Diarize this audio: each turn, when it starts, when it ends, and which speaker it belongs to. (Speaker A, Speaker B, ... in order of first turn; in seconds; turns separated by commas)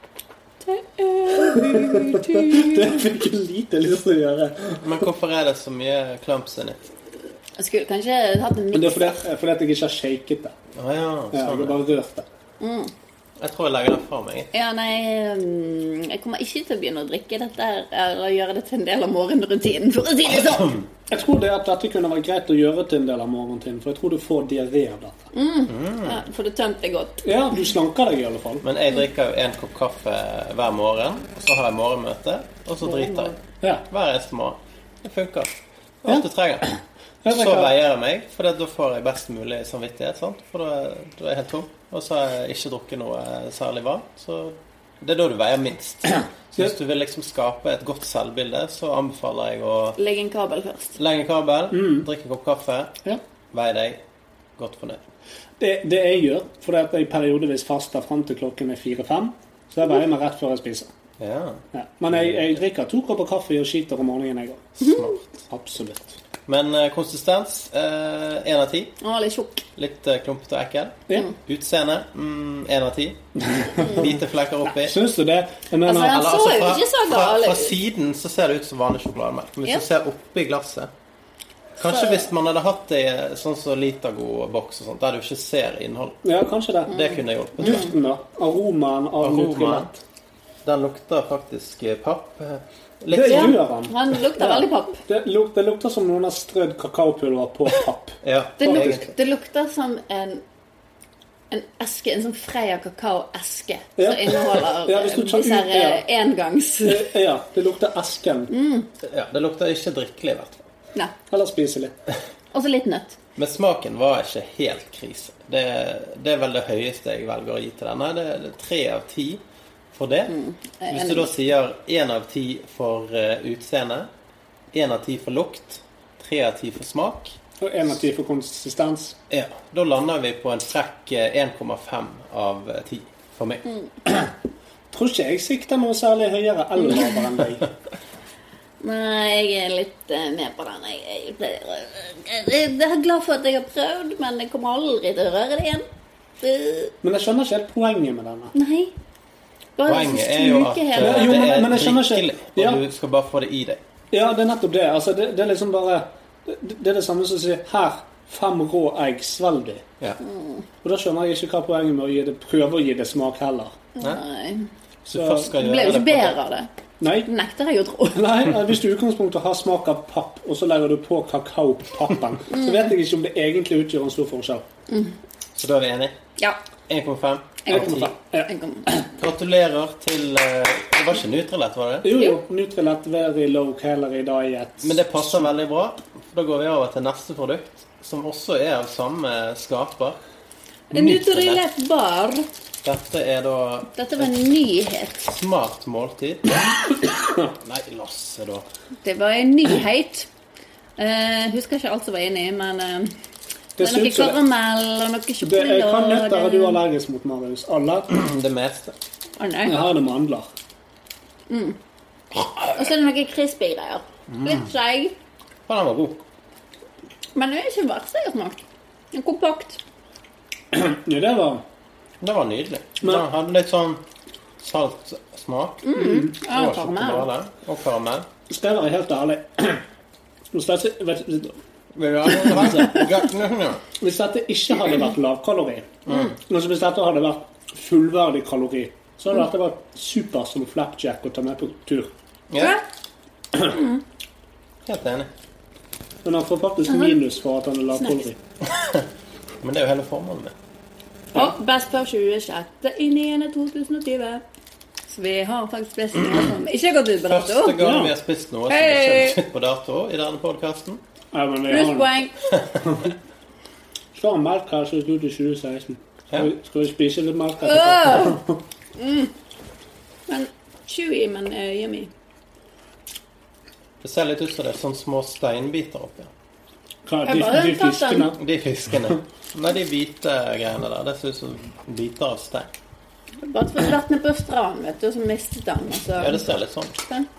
Speaker A: 0.6-3.0, Speaker B: 1.4-5.0, Speaker C: 4.8-6.8, Speaker A: 7.6-9.2, Speaker B: 8.7-10.6, Speaker C: 10.8-11.8, Speaker B: 11.3-12.3, Speaker A: 12.6-12.9, Speaker C: 13.4-14.5, Speaker A: 14.5-20.8, Speaker C: 20.3-20.9, Speaker B: 21.1-25.3, Speaker A: 25.3-27.2, Speaker C: 25.7-26.2, Speaker B: 27.2-28.6, Speaker C: 28.6-35.5, Speaker C: 36.0-36.7, Speaker B: 36.1-37.7, Speaker C: 37.3-50.0, Speaker A: 50.0-51.0, Speaker C: 51.0-53.0, Speaker B: 51.7-52.1, Speaker C: 53.5-54.0, Speaker C: 54.6-55.0, Speaker B: 55.6-60.9, Speaker C: 61.2-62.5, Speaker B: 61.7-64.8, Speaker C: 64.8-65.2, Speaker A: 64.8-65.1, Speaker B: 65.5-66.2, Speaker C: 66.5-69.0, Speaker A: 69.0-69.7, Speaker C: 69.8-75.0, Speaker B: 73.4-74.1, Speaker A: 73.8-74.1, Speaker B: 74.6-76.2, Speaker A: 75.8-77.8, Speaker C: 75.9-80.9, Speaker C: 81.8-86.2, Speaker A: 81.8-82.2, Speaker B: 86.2-87.0, Speaker C: 86.9-87.9, Speaker A: 86.9-87.9, Speaker B: 87.6-90.0, Speaker C: 89.2-89.9, Speaker C: 90.6-93.6, Speaker B: 93.1-99.1, Speaker A: 93.3-95.0, Speaker C: 98.2-99.1, Speaker A: 98.6-100.4, Speaker A: 101.5-107.1, Speaker B: 104.0-106.0, Speaker B: 106.8-108.5, Speaker A: 108.5-108.9, Speaker C: 109.0-110.7, Speaker B: 111.3-111.9, Speaker A: 112.5-113.2, Speaker C: 113.4-119.4, Speaker C: 119.9-120.3, Speaker A: 120.3-121.3, Speaker C: 120.9-124.1, Speaker C: 124.7-127.4, Speaker B: 127.6-129.2, Speaker C: 129.3-133.7, Speaker B: 134.1-134.3, Speaker B: 134.9-137.7, Speaker A: 138.8-145.8, Speaker A: 146.4-146.9, Speaker B: 147.0-148.5, Speaker A: 148.5-148.9, Speaker A: 149.8-151.6, Speaker C: 149.8-153.8, Speaker B: 151.0-152.8, Speaker B: 154.1-159.8, Speaker A: 160.2-160.7, Speaker B: 160.8-163.8, Speaker A: 164.0-164.7, Speaker B: 165.1-165.5, Speaker C: 165.1-166.4, Speaker A: 165.5-166.7, Speaker B: 167.0-167.3, Speaker A: 167.2-168.5, Speaker B: 168.1-174.7, Speaker A: 172.5-172.9, Speaker A: 174.9-175.2, Speaker C: 175.6-176.2, Speaker C: 176.9-178.1, Speaker A: 177.7-179.0, Speaker B: 177.7-179.0, Speaker C: 179.2-182.1, Speaker B: 182.0-185.5, Speaker C: 184.8-190.2, Speaker A: 190.9-192.5, Speaker C: 190.9-191.6, Speaker C: 192.8-194.3, Speaker A: 193.9-195.2, Speaker C: 195.2-196.6, Speaker C: 197.6-198.7, Speaker A: 199.0-200.3, Speaker A: 201.0-203.1, Speaker B: 203.8-204.4, Speaker A: 203.8-206.8, Speaker B: 205.4-208.1, Speaker C: 208.1-209.0, Speaker A: 209.4-209.8, Speaker B: 209.7-210.5, Speaker A: 211.5-211.8, Speaker A: 212.7-215.1, Speaker C: 215.7-216.2, Speaker A: 217.3-218.6, Speaker A: 219.1-219.8, Speaker B: 220.7-221.6, Speaker C: 222.2-224.0, Speaker C: 224.6-228.3, Speaker A: 225.8-227.3, Speaker B: 226.0-226.3, Speaker B: 228.5-229.8, Speaker B: 230.5-231.6, Speaker C: 231.9-233.8, Speaker B: 234.0-235.9, Speaker C: 236.1-236.3, Speaker B: 236.4-242.1, Speaker C: 242.5-242.8, Speaker A: 243.6-244.0, Speaker C: 244.8-245.3, Speaker B: 246.2-248.4, Speaker A: 246.9-247.2, Speaker A: 248.0-248.2, Speaker C: 248.7-249.1, Speaker C: 249.6-250.6, Speaker A: 251.3-254.4, Speaker A: 255.1-257.8, Speaker C: 257.2-261.0, Speaker B: 257.8-258.1, Speaker A: 258.7-259.4, Speaker B: 261.3-262.1, Speaker A: 261.7-262.3, Speaker C: 262.5-262.8, Speaker B: 264.1-268.6, Speaker A: 267.6-268.4, Speaker A: 269.0-269.3, Speaker A: 270.3-272.1, Speaker C: 274.0-276.3, Speaker B: 277.1-278.4, Speaker A: 277.2-278.3, Speaker C: 278.4-282.7, Speaker A: 283.4-286.5, Speaker C: 286.2-287.0